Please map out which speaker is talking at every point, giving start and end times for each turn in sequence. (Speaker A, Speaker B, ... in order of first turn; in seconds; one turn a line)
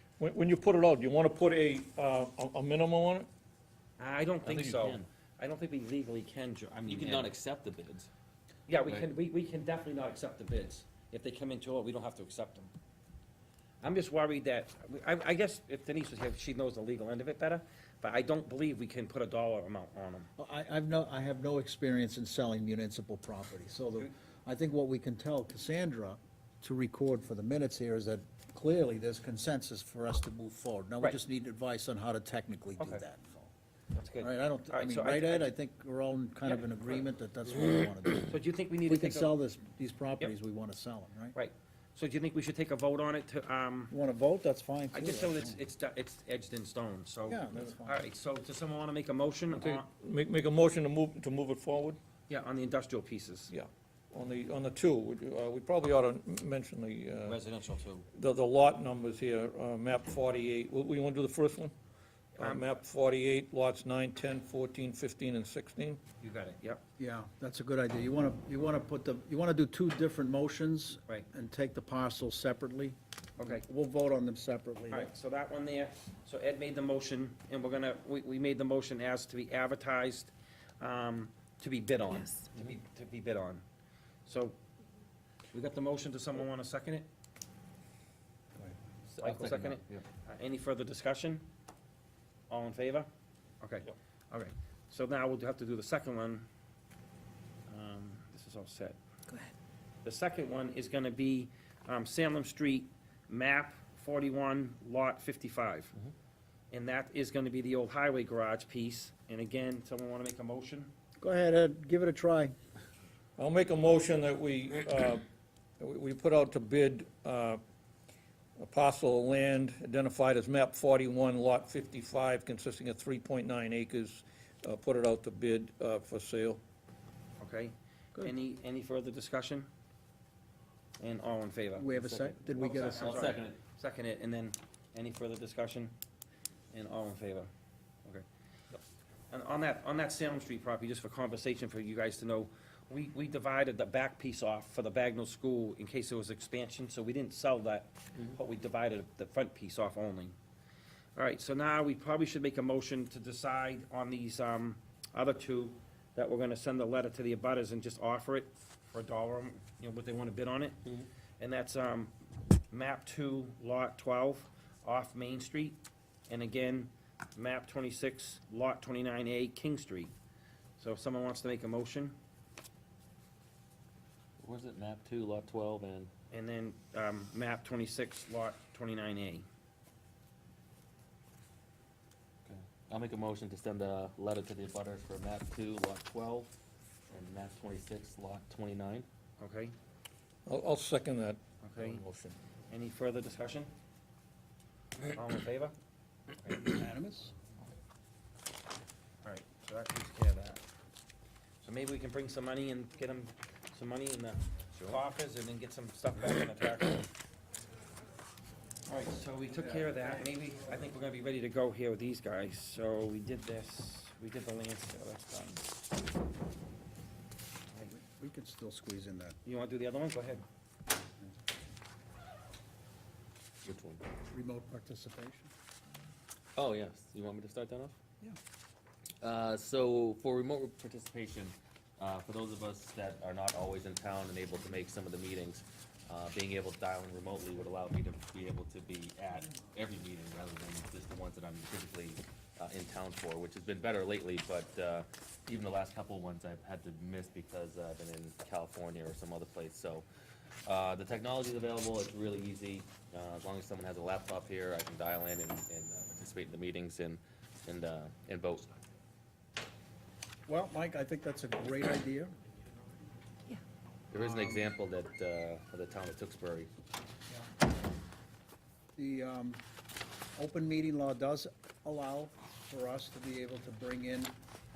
Speaker A: 0.2-3.3
Speaker B: 4.0-7.3
Speaker C: 4.4-5.1
Speaker C: 6.9-8.1
Speaker B: 8.7-12.7
Speaker B: 13.8-20.3
Speaker D: 20.4-33.5
Speaker B: 33.9-35.5
Speaker D: 34.2-38.4
Speaker B: 38.3-39.3
Speaker D: 38.9-41.4
Speaker B: 41.4-43.9
Speaker D: 43.9-45.6
Speaker B: 44.9-49.9
Speaker D: 47.3-48.0
Speaker A: 49.6-52.0
Speaker B: 52.3-53.5
Speaker A: 53.5-57.4
Speaker B: 57.2-58.1
Speaker A: 58.1-61.7
Speaker B: 62.4-62.7
Speaker A: 62.4-66.0
Speaker B: 66.2-66.8
Speaker D: 67.0-75.1
Speaker B: 74.9-83.6
Speaker B: 84.3-84.6
Speaker B: 85.5-87.1
Speaker C: 89.1-90.0
Speaker B: 89.2-91.5
Speaker B: 92.5-93.1
Speaker B: 93.6-96.5
Speaker B: 97.7-99.0
Speaker B: 100.0-106.0
Speaker B: 106.7-110.9
Speaker D: 111.2-112.5
Speaker A: 113.4-115.2
Speaker A: 115.8-117.6
Speaker A: 118.6-126.6
Speaker B: 127.4-129.7
Speaker B: 131.0-131.9
Speaker D: 131.8-133.4
Speaker C: 132.0-133.6
Speaker B: 132.6-135.9
Speaker B: 136.7-137.5
Speaker B: 139.3-150.3
Speaker B: 151.2-160.8
Speaker B: 161.4-162.2
Speaker B: 162.7-170.1
Speaker B: 170.8-172.2
Speaker C: 174.4-176.1
Speaker B: 176.3-179.5
Speaker C: 182.5-186.5
Speaker C: 187.1-189.1
Speaker B: 189.4-189.7
Speaker A: 190.5-191.4
Speaker B: 191.6-192.0
Speaker B: 192.7-193.7
Speaker B: 195.1-195.8
Speaker D: 196.5-197.3
Speaker B: 199.2-200.6
Speaker B: 201.6-207.1
Speaker C: 204.8-205.0
Speaker B: 208.9-215.7
Speaker D: 217.7-219.4
Speaker B: 219.4-220.4
Speaker C: 223.6-224.0
Speaker D: 224.3-225.5
Speaker C: 226.6-228.0
Speaker C: 229.2-250.1
Speaker C: 250.7-258.7
Speaker D: 260.5-262.3
Speaker C: 264.1-266.7
Speaker D: 264.2-264.5
Speaker D: 269.0-269.6
Speaker D: 270.4-274.3